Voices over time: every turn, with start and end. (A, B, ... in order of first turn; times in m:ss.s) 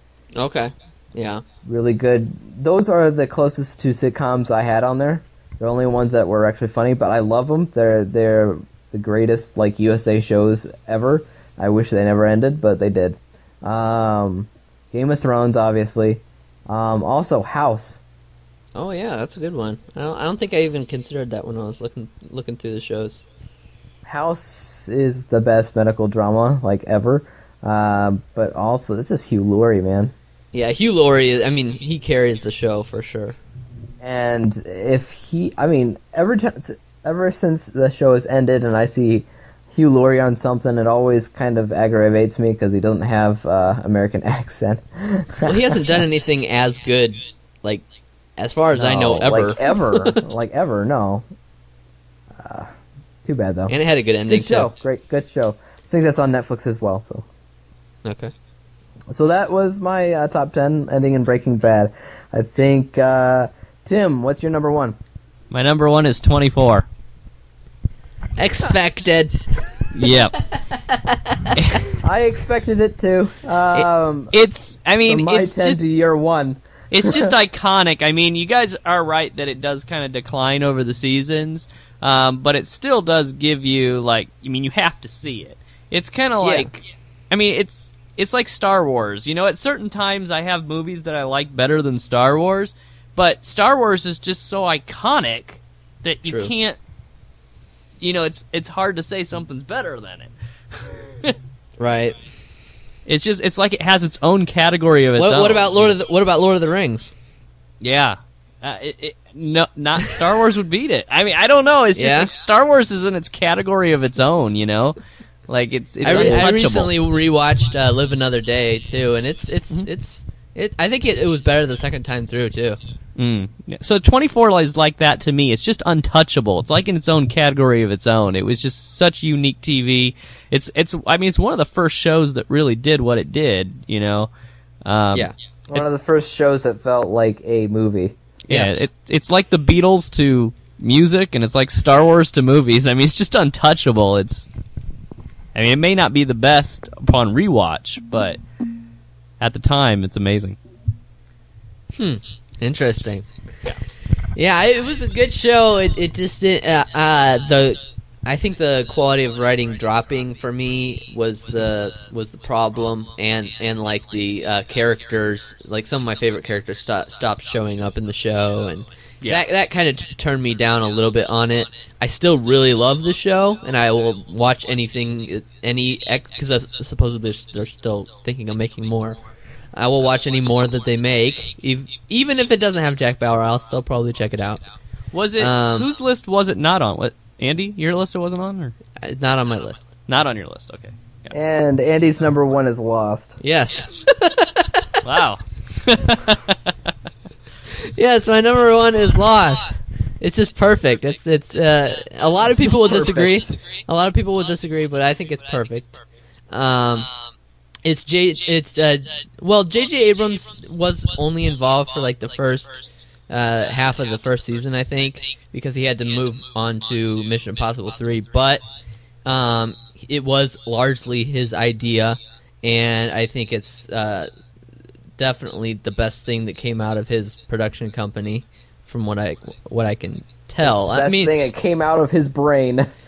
0:00.4-0:01.4 A
0:01.6-0:18.0 B
0:18.8-0:23.2 A
0:24.0-0:30.1 B
0:30.5-0:33.4 A
0:34.0-0:46.0 B
0:45.4-0:47.8 A
0:48.4-0:50.2 A
0:48.8-0:51.2 B
0:52.3-0:52.7 B
0:53.2-0:53.7 B
0:53.7-0:54.7 A
0:54.3-0:57.3 B
0:58.0-0:58.3 A
0:59.1-1:05.0 B
1:05.5-1:06.9 C
1:08.4-1:09.4 A
1:09.9-1:10.4 C
1:10.8-1:11.6 A
1:11.6-1:11.9 C
1:12.0-1:14.3 B
1:13.7-1:15.8 C
1:15.0-1:17.4 B
1:16.9-1:36.8 C
1:26.4-1:26.7 A
1:36.2-1:36.5 A
1:38.0-1:40.3 C
1:41.8-1:42.2 A
1:43.1-1:45.9 C
1:45.2-1:47.1 A
1:47.8-1:56.9 C
1:52.0-1:52.3 A
1:56.0-2:02.8 A
1:56.1-1:56.6 B
2:03.2-2:14.3 C
2:14.8-2:15.3 C
2:15.7-2:18.2 B
2:18.5-2:24.5 C
2:25.6-2:28.4 C
2:29.4-2:30.6 C
2:31.9-2:33.3 A
2:34.4-2:59.2 A
2:59.7-3:04.6 A
3:05.1-3:08.7 C
3:05.4-3:05.9 A
3:09.0-3:09.9 A
3:10.1-3:11.3 C
3:11.3-3:13.4 B
3:13.4-3:15.0 A
3:15.0-3:16.7 C
3:17.7-3:27.1 A
3:22.4-3:23.5 B
3:27.8-3:38.6 A
3:39.2-3:44.3 A
3:45.2-3:51.3 A
3:50.7-3:52.9 B